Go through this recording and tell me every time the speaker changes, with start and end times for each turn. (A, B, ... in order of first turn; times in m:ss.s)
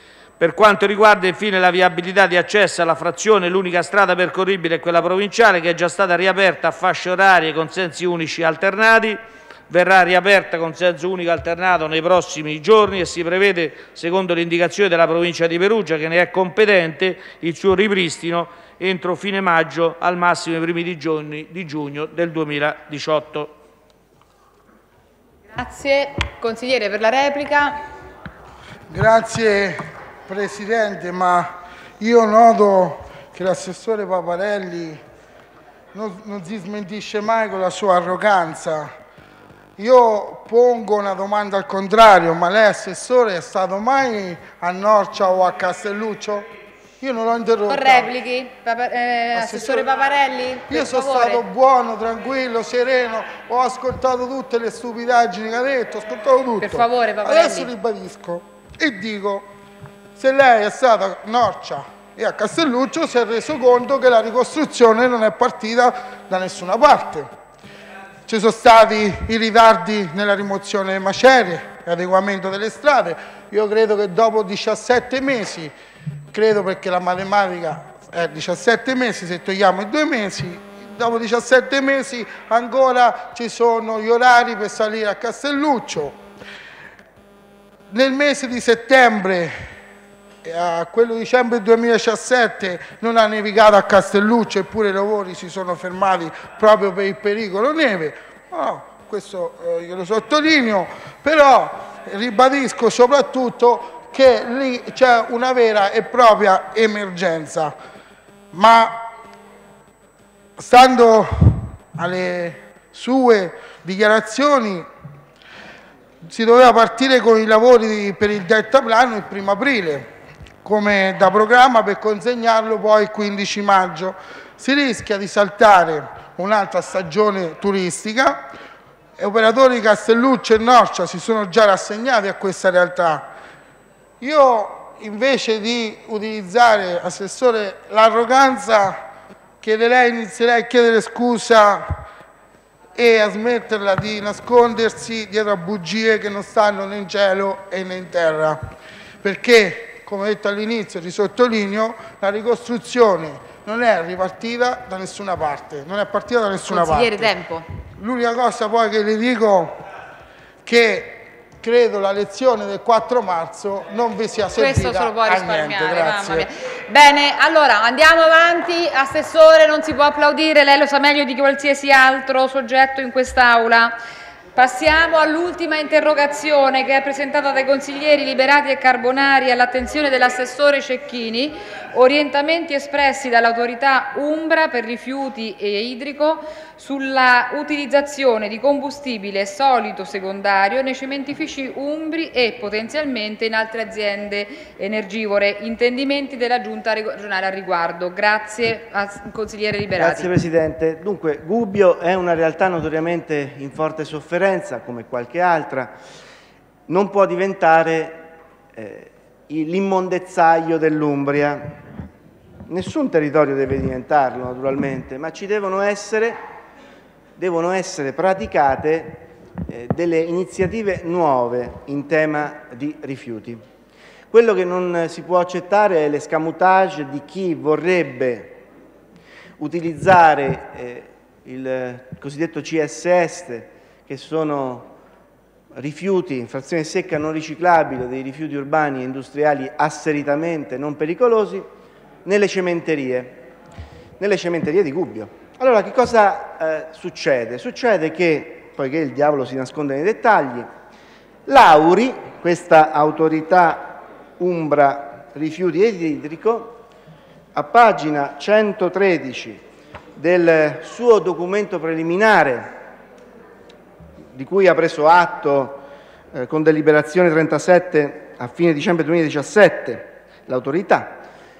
0:00.4-0:23.6 A
0:25.5-0:27.8 B
0:28.9-0:35.0 C
0:35.9-0:38.9 C
0:39.8-0:46.5 C
0:47.0-0:48.1 C
0:47.7-0:51.4 B
0:49.3-0:49.9 C
0:50.7-0:59.5 C
0:56.6-0:57.7 B
1:00.2-1:07.3 C
1:08.3-1:15.7 C
1:16.3-1:26.2 C
1:27.9-1:29.6 C
1:30.4-1:47.7 C
1:48.5-1:49.0 C
1:50.6-1:54.9 C
1:56.2-2:00.1 C
2:00.6-2:08.5 C
2:09.2-2:13.3 C
2:14.2-2:19.0 C
2:19.6-2:22.0 C
2:23.0-2:28.6 C
2:29.2-2:37.4 C
2:36.7-2:37.6 B
2:37.9-2:39.8 C
2:40.6-2:46.5 C
2:44.6-2:54.0 B
2:54.5-3:20.3 B
3:20.0-3:25.9 D
3:26.9-3:28.2 D
3:28.7-3:31.8 D
3:32.7-3:36.4 D
3:37.4-3:43.6 D
3:44.3-3:48.6 D
3:49.6-3:54.9 D
3:55.7-4:01.7 D
4:02.2-4:03.4 D
4:04.2-4:10.7 D
4:11.5-4:16.8 D
4:17.5-4:19.6 D
4:20.2-4:22.7 D
4:24.3-4:25.8 D
4:26.3-4:31.2 D